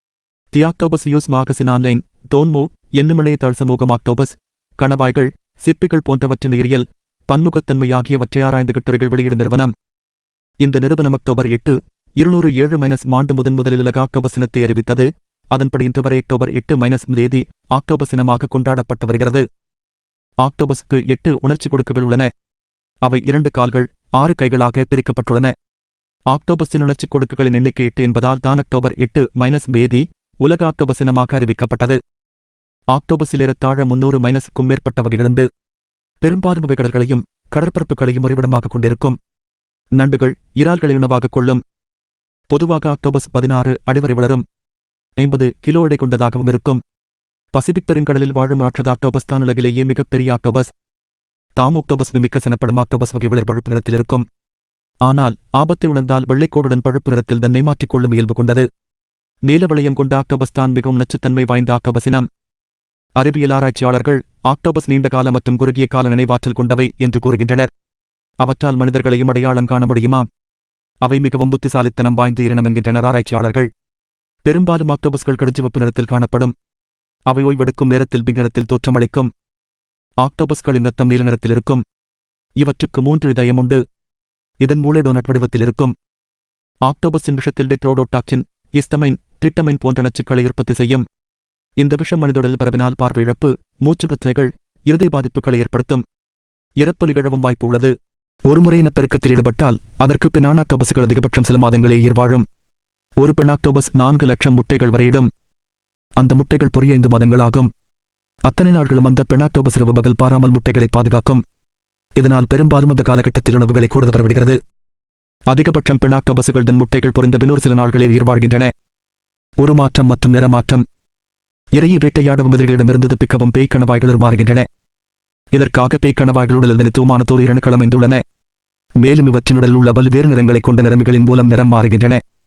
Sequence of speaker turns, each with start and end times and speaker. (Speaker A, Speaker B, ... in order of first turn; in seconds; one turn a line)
Speaker A: 0.5-9.7
Speaker A: 10.6-19.4
Speaker A: 20.4-22.3
Speaker A: 23.0-25.5
Speaker A: 26.3-32.0
Speaker A: 32.9-35.5
Speaker A: 36.2-39.2
Speaker A: 40.0-41.6
Speaker A: 42.5-44.4
Speaker A: 45.2-46.8
Speaker A: 47.5-50.7
Speaker A: 51.5-54.2
Speaker A: 55.0-58.7
Speaker A: 59.5-62.3
Speaker A: 63.2-67.7
Speaker A: 68.4-70.3
Speaker A: 71.0-73.7
Speaker A: 74.4-76.5
Speaker A: 77.3-79.3
Speaker A: 80.2-81.8
Speaker A: 82.6-83.8
Speaker A: 84.6-85.9
Speaker A: 86.8-91.0
Speaker A: 91.8-96.0
Speaker A: 96.8-97.9
Speaker A: 98.5-102.5
Speaker A: 103.2-105.3
Speaker A: 106.2-107.7
Speaker A: 108.5-111.4
Speaker A: 112.2-114.6
Speaker A: 115.5-118.7
Speaker A: 119.6-120.8
Speaker A: 121.7-124.7
Speaker A: 125.5-128.2
Speaker A: 129.0-132.2